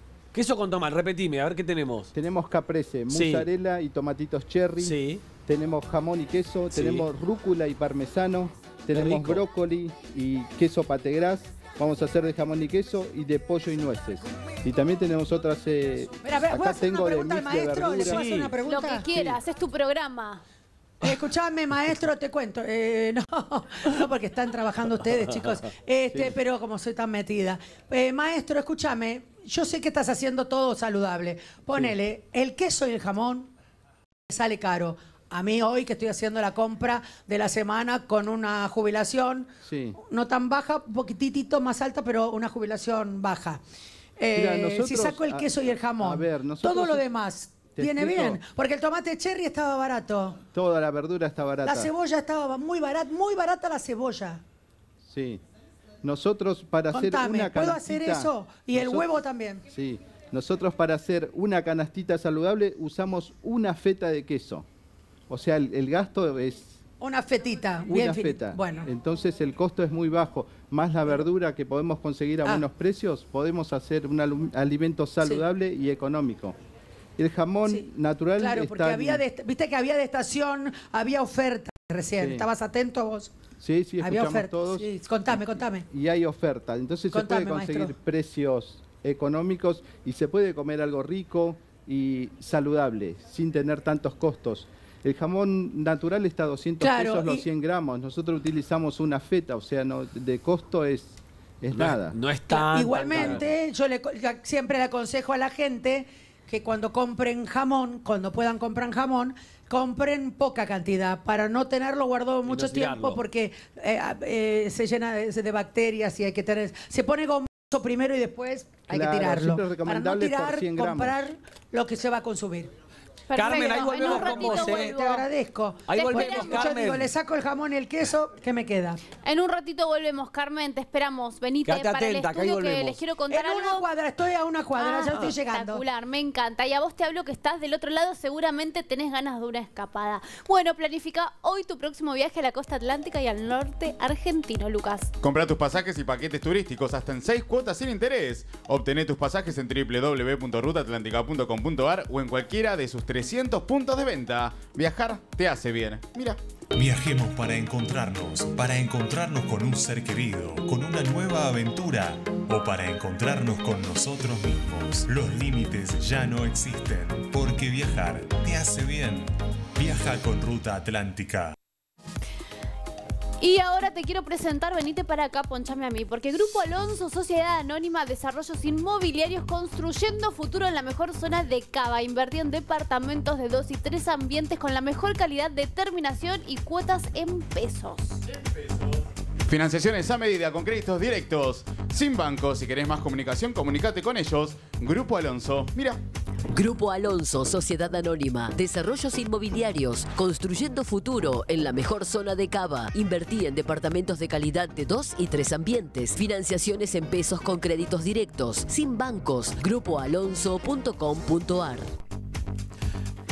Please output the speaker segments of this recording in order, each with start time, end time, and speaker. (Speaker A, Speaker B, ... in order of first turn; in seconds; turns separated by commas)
Speaker A: 0.3-2.1, Speaker B: 2.1-18.2, Speaker A: 3.1-3.5, Speaker A: 4.8-5.2, Speaker A: 6.7-7.1, Speaker A: 8.9-9.4, Speaker C: 16.2-19.1, Speaker A: 18.0-18.6, Speaker D: 18.6-20.4, Speaker C: 21.0-33.5, Speaker C: 34.3-43.6, Speaker B: 39.6-40.0, Speaker C: 44.2-50.4, Speaker B: 44.3-47.1, Speaker B: 47.7-48.4, Speaker B: 50.5-51.9, Speaker C: 51.6-54.4, Speaker B: 55.0-55.4, Speaker B: 56.0-59.2, Speaker C: 56.9-59.6, Speaker B: 59.7-64.6, Speaker B: 65.3-66.7, Speaker C: 67.0-68.9, Speaker B: 67.9-76.5, Speaker B: 77.2-79.2, Speaker C: 77.7-83.3, Speaker B: 82.2-82.5, Speaker B: 83.6-102.2, Speaker C: 84.0-85.9, Speaker C: 87.1-87.9, Speaker C: 96.8-97.5, Speaker A: 101.7-103.5, Speaker C: 102.5-122.7, Speaker A: 112.5-113.2, Speaker B: 118.9-121.2, Speaker D: 123.3-125.2, Speaker A: 123.3-124.9, Speaker C: 123.4-129.0, Speaker A: 125.9-127.1, Speaker D: 126.0-126.7, Speaker D: 129.2-133.8, Speaker A: 131.6-133.0, Speaker C: 133.3-135.8, Speaker D: 134.8-145.1, Speaker E: 145.2-156.4, Speaker F: 156.7-171.5, Speaker D: 173.4-188.2, Speaker E: 189.5-196.0, Speaker G: 196.5-211.9